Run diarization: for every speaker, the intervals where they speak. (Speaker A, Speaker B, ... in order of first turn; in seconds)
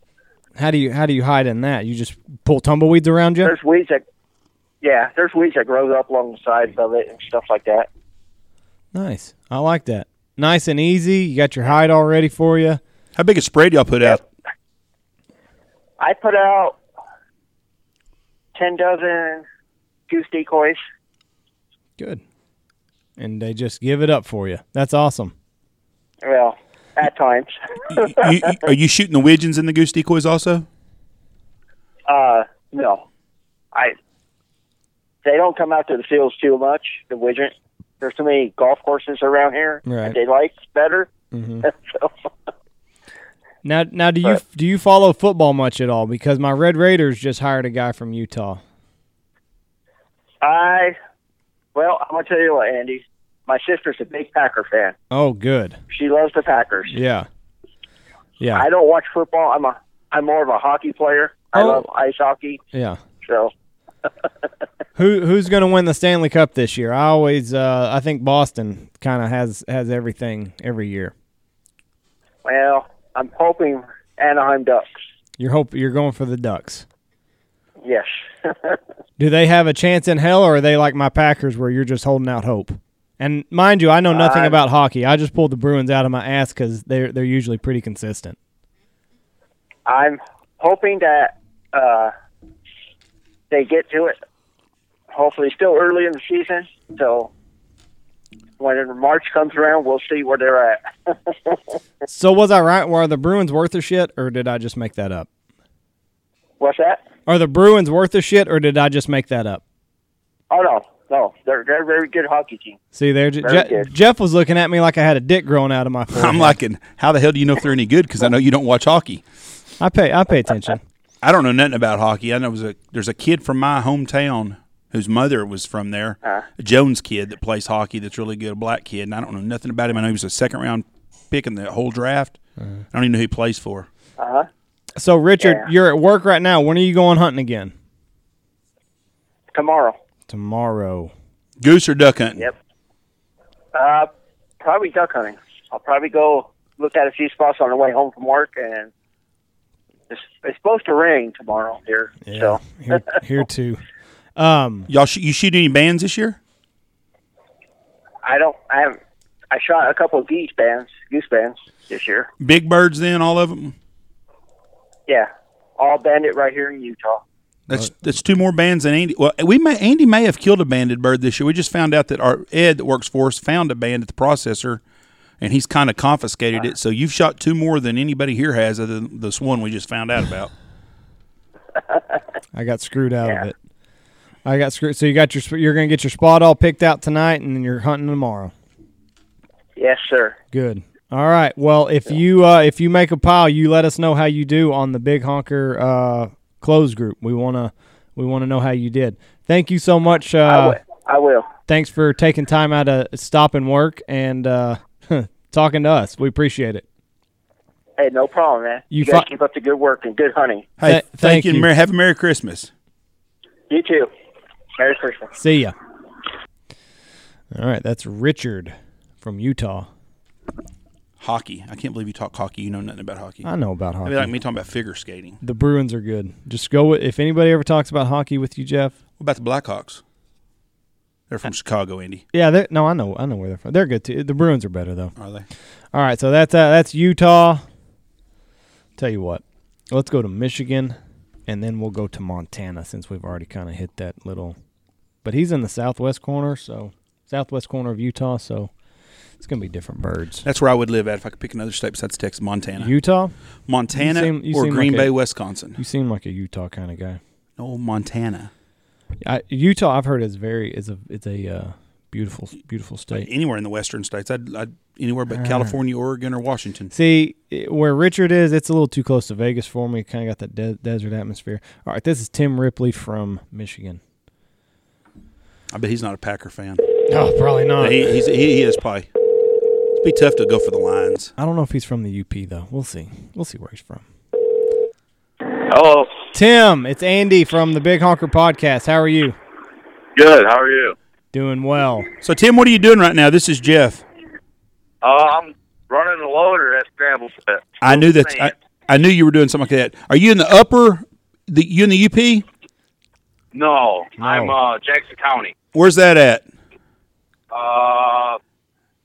Speaker A: 0.6-3.5, 8.9-12.8, 23.2-25.3, 39.9-40.2, 41.3-41.7, 43.6-48.6, 55.1-55.8, 56.9-57.3, 58.4-58.7, 61.5-61.8, 62.7-63.0, 65.0-71.1, 75.4-76.9, 79.2-88.4, 102.1-105.3, 107.3-109.6, 112.9-116.6, 119.8-120.8, 135.0-137.7, 140.3-141.1, 152.2-153.8, 154.4-154.9, 182.5-183.5, 184.4-188.5, 190.5-200.8, 201.7-206.8, 208.9-209.3, 210.8-211.7, 215.4-215.8, 217.5-219.9, 223.4-224.3, 225.4-228.9, 232.3-235.2, 235.9-237.6, 239.0-244.6, 245.2-248.7, 249.4-250.4, 252.8-253.3, 253.9-255.2, 255.8-257.2, 259.2-263.3, 265.3-265.7, 266.9-274.0, 277.1-278.1, 281.4-284.1, 286.3-289.4, 291.3-292.1, 304.2-304.6
Speaker B: 3.4-4.0, 4.8-7.9, 16.0-16.8, 18.6-19.4, 20.1-20.8, 26.2-28.6, 32.1-33.0, 35.2-41.1, 41.6-42.1, 50.4-51.0, 51.8-55.0, 55.9-57.0, 58.5-62.6, 63.2-63.5, 72.5-74.9, 77.8-78.8, 84.1-84.6, 89.9-92.1, 93.5-94.2, 95.1-97.3, 98.6-101.6, 106.6-107.0, 110.5-112.8, 113.4-113.9, 134.2-134.5, 135.4-135.7, 139.5-140.0, 143.7-148.9, 150.1-152.6, 158.2-159.0, 159.5-162.3, 165.1-167.2, 189.8-190.4, 200.5-201.5, 208.0-210.7, 213.7-214.1, 214.8-215.3
Speaker C: 13.2-14.2, 27.9-30.7, 116.1-119.2, 121.2-132.4, 132.9-133.9, 141.6-142.5, 154.9-156.4, 162.4-163.8, 167.7-174.8, 175.4-180.5, 210.8-212.7, 221.2-223.5, 224.0-225.4, 229.2-230.0, 231.3-232.2, 235.2-235.5, 250.4-252.9, 253.7-255.8, 257.6-258.5, 263.1-266.9, 275.7-276.8, 277.8-279.1, 279.9-281.3, 292.2-294.0, 297.8-302.5, 305.7-306.5
Speaker D: 285.7-286.1, 290.2-291.0, 295.0-298.5, 303.5-305.6, 307.5-308.4